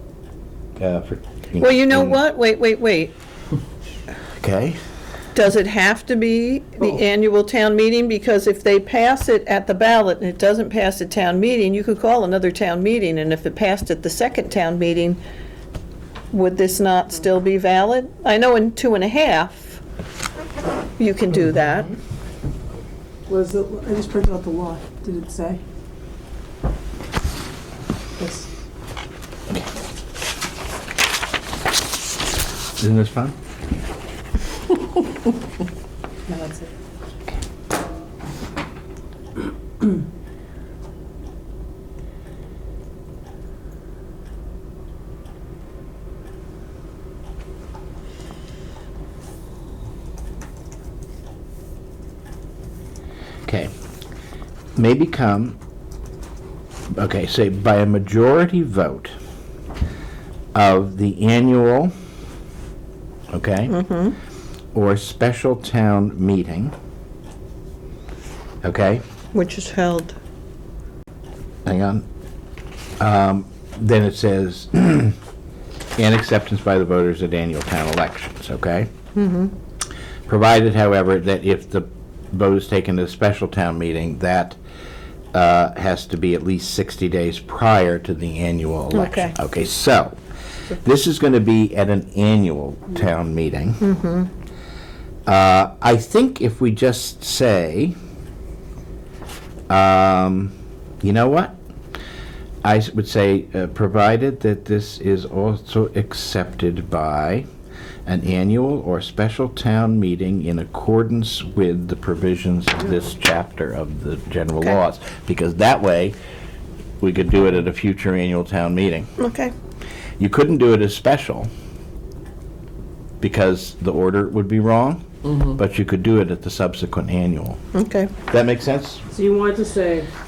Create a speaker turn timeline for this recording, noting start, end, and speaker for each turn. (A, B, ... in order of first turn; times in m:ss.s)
0:00.8-0:02.2 A
0:01.6-0:03.1 B
0:04.4-0:04.8 A
0:05.3-0:15.2 B
0:16.3-0:19.8 B
0:21.0-0:21.9 B
0:23.3-0:25.6 C
0:28.2-0:28.5 C
0:32.8-0:33.3 A
0:36.3-0:36.7 C
0:53.4-0:53.7 A
0:54.8-0:55.6 A
0:56.9-0:59.1 A
1:00.5-1:01.9 A
1:03.3-1:03.9 A
1:03.7-1:04.1 B
1:04.7-1:06.7 A
1:08.6-1:09.0 A
1:09.3-1:10.1 B
1:11.6-1:12.0 A
1:13.0-1:15.2 A
1:16.0-1:18.9 A
1:19.1-1:19.5 B
1:20.3-1:24.6 A
1:25.3-1:30.2 A
1:28.9-1:29.3 B
1:30.7-1:33.8 A
1:33.8-1:34.3 B
1:35.2-1:38.0 A
1:39.7-1:41.6 A
1:42.6-1:47.5 A
1:48.0-1:56.2 A
1:57.0-1:59.1 A
1:59.2-1:59.5 B
2:00.2-2:01.5 A
2:03.2-2:07.6 A
2:07.7-2:08.1 B
2:08.3-2:09.0 A
2:09.1-2:10.1 C